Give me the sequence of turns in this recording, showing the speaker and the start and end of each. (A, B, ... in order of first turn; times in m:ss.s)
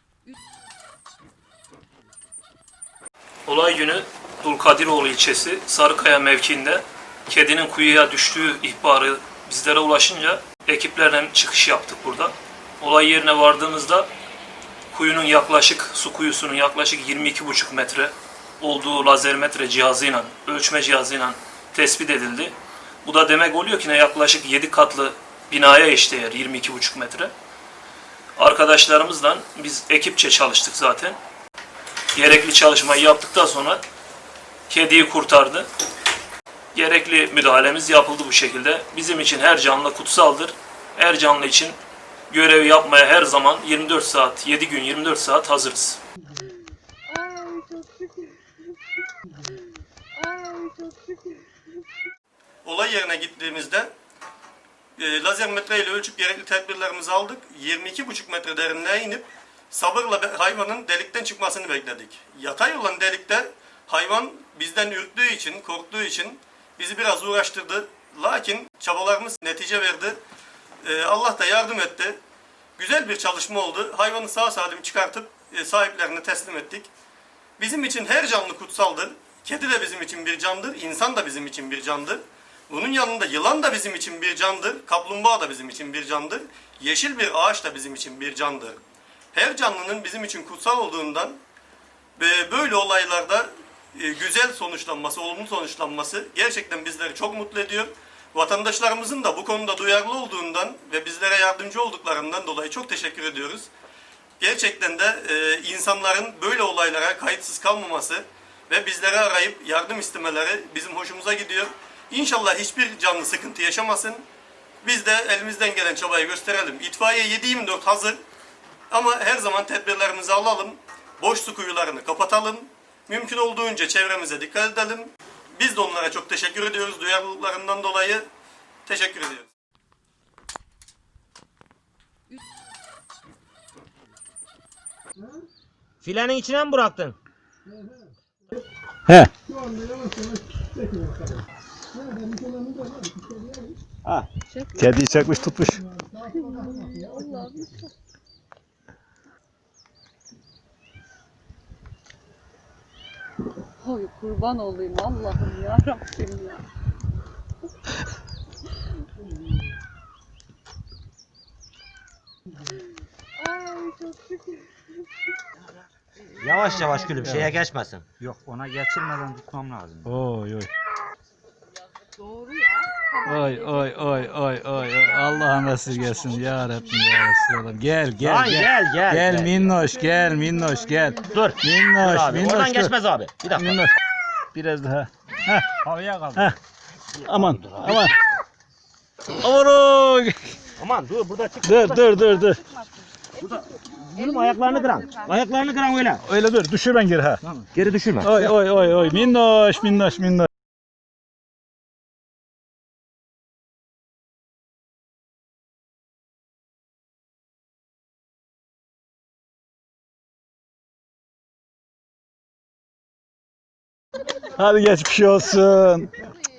0:03.5-0:14.1 A
0:14.9-0:27.3 A
0:28.4-0:31.2 A
0:32.2-0:33.8 A
0:34.7-0:35.7 A
0:36.8-0:41.8 A
0:42.3-0:46.0 A
0:47.1-0:48.4 B
0:50.2-0:51.5 B
0:52.6-0:53.9 C
0:55.0-1:10.2 C
1:10.8-1:12.2 C
1:12.8-1:16.9 C
1:17.6-1:28.8 C
1:29.3-1:31.4 C
1:32.2-1:43.7 C
1:44.4-1:54.2 C
1:54.8-1:58.2 C
1:58.9-2:08.2 C
2:08.9-2:09.5 C
2:16.0-2:17.2 D
2:24.4-2:25.6 B
2:24.8-2:25.9 E
2:26.2-2:27.9 B
2:33.8-2:36.6 B
2:43.4-2:44.7 B
2:46.4-2:48.0 D
2:47.2-2:47.5 E
2:48.2-2:50.2 F
2:50.0-2:50.7 E
2:52.2-2:52.6 B
2:53.1-2:54.3 B
2:53.2-3:03.9 E
2:58.2-2:59.8 D
3:01.3-3:03.8 D
3:04.5-3:05.7 E
3:05.8-3:06.5 D
3:07.2-3:08.1 D
3:07.3-3:08.2 E
3:09.4-3:10.6 E
3:10.8-3:12.2 D
3:11.6-3:12.6 E
3:13.4-3:16.2 D
3:16.2-3:17.5 E
3:17.7-3:18.6 D
3:18.2-3:20.5 E
3:34.5-3:36.1 E